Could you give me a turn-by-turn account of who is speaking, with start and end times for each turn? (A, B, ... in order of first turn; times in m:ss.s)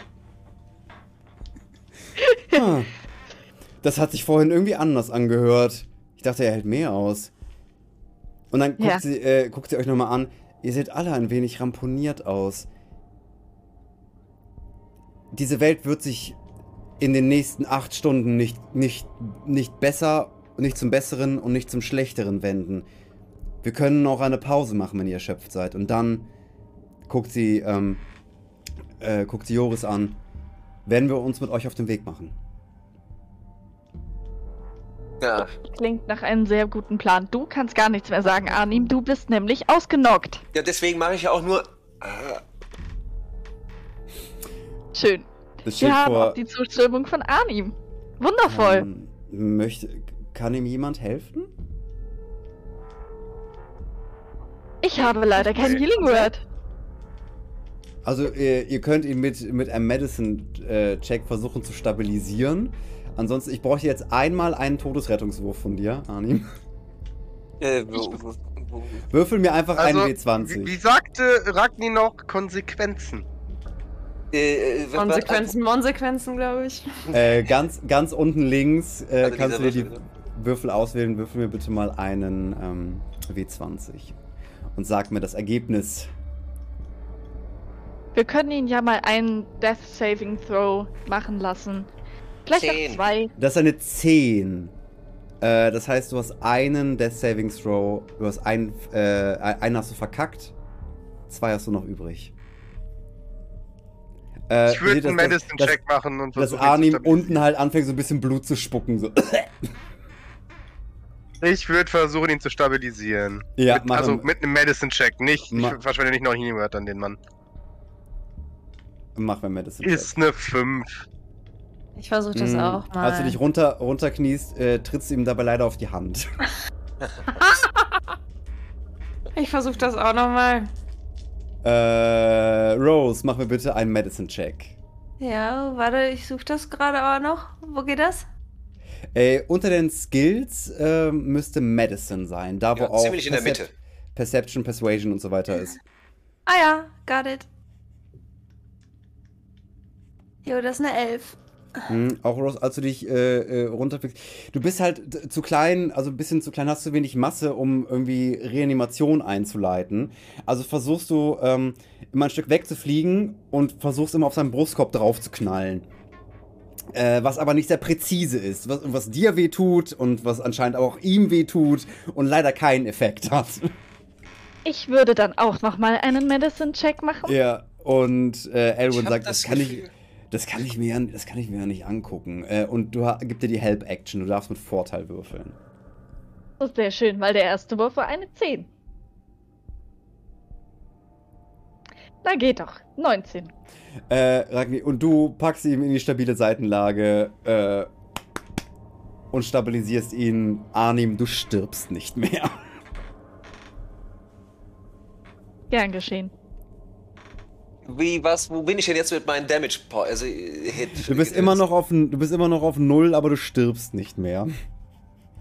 0:02.2-0:02.6 A
0:02.5-0:02.9 B
0:03.8-0:07.3 B
0:08.5-0:12.7 B
0:08.8-0:09.0 A
0:15.3-0:16.4 B
0:17.0-0:22.9 B
0:23.6-0:26.3 B
0:27.1-0:28.0 B
0:29.0-0:30.2 B
0:30.9-0:32.4 B
0:35.2-0:35.5 C
0:35.6-0:40.4 A
0:40.5-0:42.4 C
0:44.9-0:45.3 A
0:45.6-0:46.4 B
0:45.8-0:48.9 A
0:48.5-0:51.5 B
0:54.8-0:56.4 A
0:56.0-0:56.3 D
0:58.0-1:06.5 B
1:07.6-1:09.0 C
1:09.1-1:10.7 B
1:09.8-1:13.2 E
1:14.3-1:15.5 C
1:15.0-1:17.1 D
1:17.1-1:24.1 B
1:19.2-1:20.0 C
1:24.8-1:26.1 B
1:28.2-1:31.9 A
1:32.5-1:33.3 A
1:32.5-1:33.0 C
1:33.4-1:34.7 B
1:35.4-1:40.5 B
1:41.3-1:42.3 B
1:44.5-1:45.8 B
1:44.7-1:47.4 E
1:46.4-1:49.5 B
1:51.4-1:57.2 E
1:53.6-1:54.3 B
1:55.5-1:55.8 B
1:59.2-2:00.1 B
1:59.8-2:01.0 E
2:02.0-2:03.4 D
2:02.3-2:06.3 B
2:07.3-2:08.0 D
2:09.3-2:10.7 D
2:11.6-2:14.8 B
2:15.2-2:18.2 D
2:19.1-2:25.8 B
2:22.8-2:23.7 C
2:26.5-2:27.5 D
2:30.4-2:31.4 D
2:31.9-2:45.9 B
2:46.9-2:53.7 B
2:54.6-2:57.4 A
2:57.2-3:05.6 B
2:58.9-2:59.9 C
3:06.6-3:08.7 A
3:12.2-3:13.5 A
3:14.1-3:17.9 B
3:19.3-3:22.6 B
3:25.7-3:26.3 A
3:27.8-3:31.6 C
3:31.0-3:34.5 B